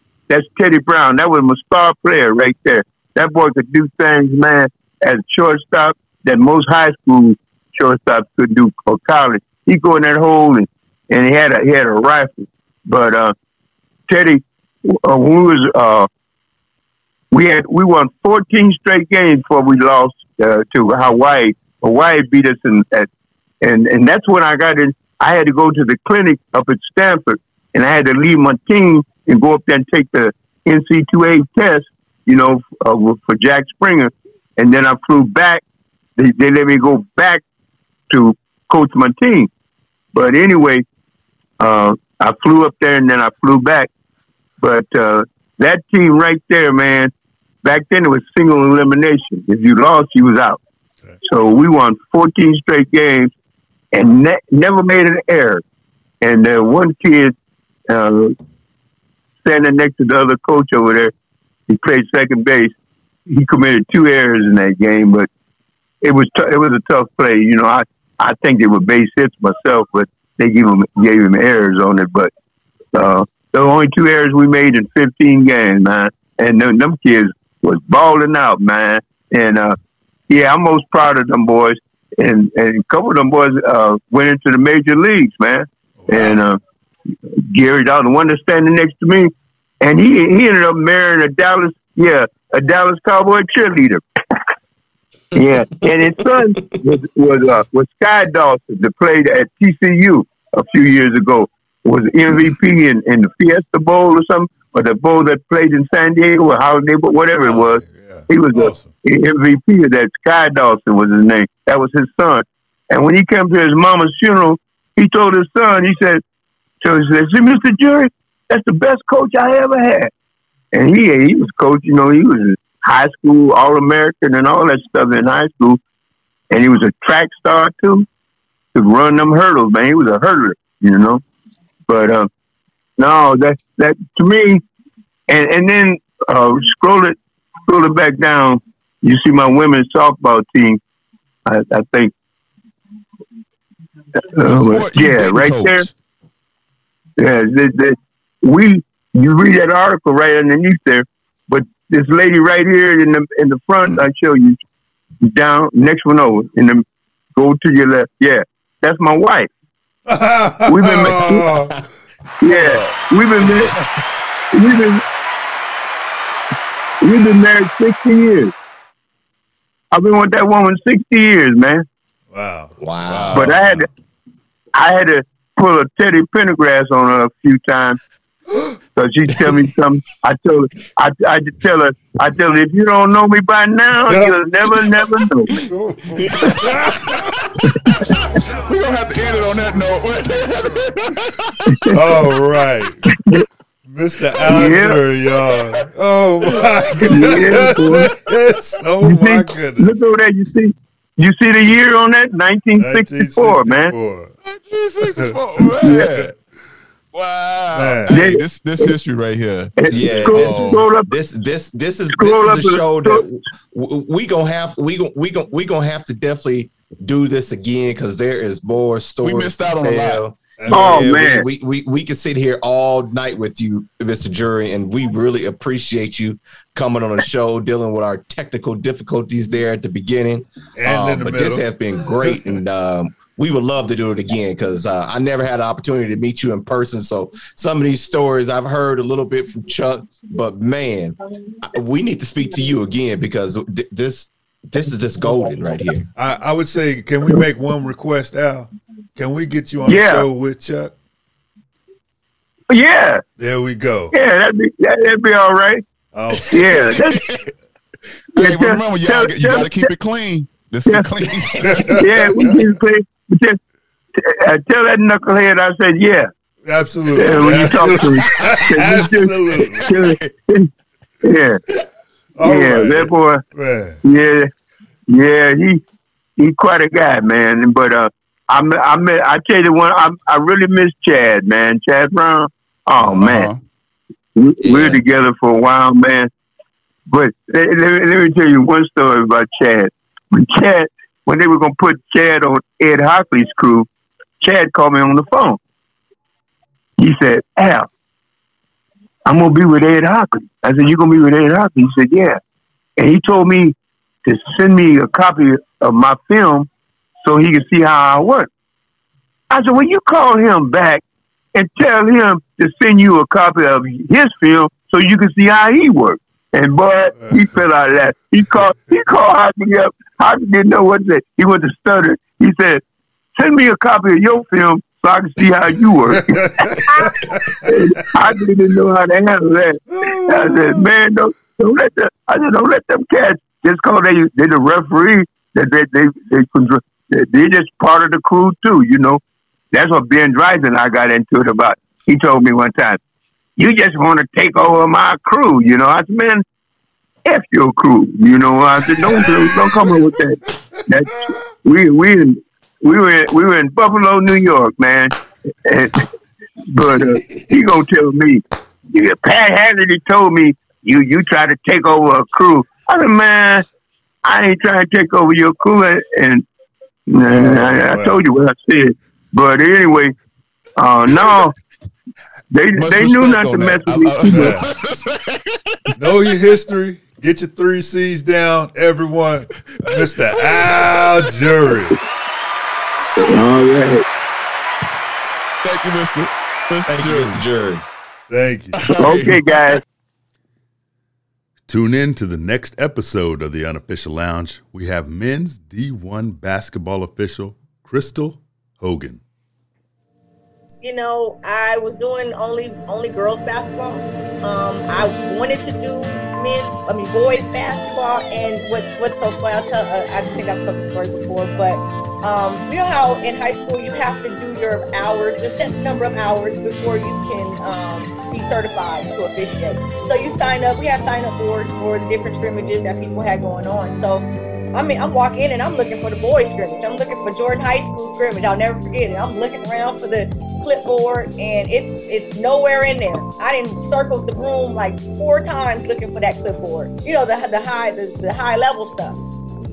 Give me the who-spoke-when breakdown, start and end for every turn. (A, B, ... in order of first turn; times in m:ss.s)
0:00.3-0:13.4 A
0:14.1-0:16.1 A
0:17.3-0:23.1 A
0:23.6-0:35.6 A
0:36.2-0:37.4 A
0:38.1-0:39.5 A
0:40.1-0:40.8 A
0:41.6-0:43.9 A
0:44.6-0:47.1 A
0:47.6-0:50.6 A
0:51.2-0:53.3 A
0:53.9-0:55.6 A
0:56.2-0:57.3 A
0:57.9-0:58.4 A
0:59.4-1:01.1 A
1:01.7-1:02.8 A
1:03.3-1:05.3 A
1:06.0-1:12.3 A
1:12.9-1:19.8 A
1:20.3-1:26.6 A
1:26.0-1:26.4 B
1:27.5-1:34.0 A
1:35.3-1:56.2 A
1:47.4-1:48.9 B
1:56.8-2:00.1 A
2:00.7-2:05.8 A
2:06.5-2:08.1 A
2:08.7-2:11.2 A
2:11.9-2:12.3 A
2:13.0-2:14.6 A
2:15.3-2:20.8 A
2:21.5-2:22.1 A
2:24.3-2:25.9 A
2:24.4-2:25.9 C
2:27.2-2:34.6 A
2:35.2-2:36.8 A
2:37.4-2:39.5 A
2:40.1-2:41.8 B
2:40.7-2:41.5 A
2:42.4-2:43.7 A
2:42.5-2:42.9 C
2:43.4-2:43.8 B
2:44.5-2:45.0 A
2:47.0-2:48.5 A
2:49.9-2:51.8 A
2:52.3-2:53.6 B
2:52.8-2:53.5 D
2:53.0-2:53.6 C
2:53.3-2:53.9 A
2:54.8-2:58.0 A
2:58.5-2:58.8 B
2:59.0-3:05.5 A
2:59.3-2:59.7 D
3:04.1-3:04.4 B
3:05.6-3:07.1 D
3:05.7-3:07.3 B
3:06.5-3:06.8 C
3:07.9-3:11.9 C
3:11.9-3:13.2 B
3:13.1-3:13.4 A
3:13.9-3:20.0 B
3:14.5-3:15.0 A
3:16.6-3:17.8 C
3:17.0-3:18.1 A
3:19.0-3:23.9 A
3:22.8-3:24.3 B
3:24.4-3:26.3 C
3:25.0-3:26.2 B
3:25.8-3:26.1 A
3:27.1-3:30.8 C
3:27.7-3:28.3 B
3:28.1-3:28.9 A
3:29.8-3:31.1 A
3:29.9-4:06.1 D
3:32.1-3:33.2 A
3:39.2-3:40.2 C
3:40.6-3:41.0 B
3:40.7-3:41.5 A
3:50.8-3:51.7 B
4:06.2-4:11.0 B
4:09.8-4:10.3 A
4:12.7-4:13.2 A
4:13.4-4:14.1 B
4:14.1-4:15.8 A
4:16.1-4:17.2 B
4:16.5-4:17.2 A
4:16.7-4:17.5 C
4:18.4-4:22.6 C
4:18.4-4:19.9 A
4:21.2-4:22.5 D
4:21.6-4:22.0 B
4:22.0-4:23.6 A
4:24.2-4:26.3 A
4:26.6-4:29.9 B
4:27.1-4:30.7 A
4:27.5-4:28.6 C
4:29.6-4:30.3 C
4:31.2-4:31.6 A
4:32.4-4:34.0 B
4:32.4-4:33.4 A
4:34.0-4:34.5 A
4:35.1-4:35.8 A
4:36.4-4:43.5 A
4:43.0-4:43.6 C
4:44.4-4:46.3 A
4:44.6-4:45.0 D
4:47.1-4:53.9 A
4:54.4-4:55.6 A
4:57.0-4:57.9 A
4:59.3-5:02.4 A
5:03.0-5:06.7 A
5:07.2-5:08.5 A
5:09.5-5:11.0 A
5:11.5-5:22.8 A
5:23.4-5:27.1 A
5:26.1-5:27.8 B
5:27.6-5:39.2 A
5:29.9-5:30.9 B
5:39.7-5:43.0 A
5:43.6-5:46.4 A
5:47.3-5:55.1 A
5:49.2-5:49.9 B
5:55.6-5:56.1 A
5:56.6-6:03.6 A
6:04.2-6:06.5 A
6:07.1-6:10.1 A
6:07.3-6:08.2 B
6:10.8-6:11.6 A
6:12.5-6:14.6 A
6:12.8-6:16.0 C
6:14.3-6:14.7 B
6:15.9-6:22.0 B
6:19.8-6:20.6 C
6:23.2-6:24.0 A
6:25.6-6:27.4 C
6:26.9-6:27.8 D
6:28.3-6:29.1 B
6:28.8-6:29.8 C
6:29.0-6:29.8 A
6:31.7-6:39.2 B
6:40.8-7:19.2 E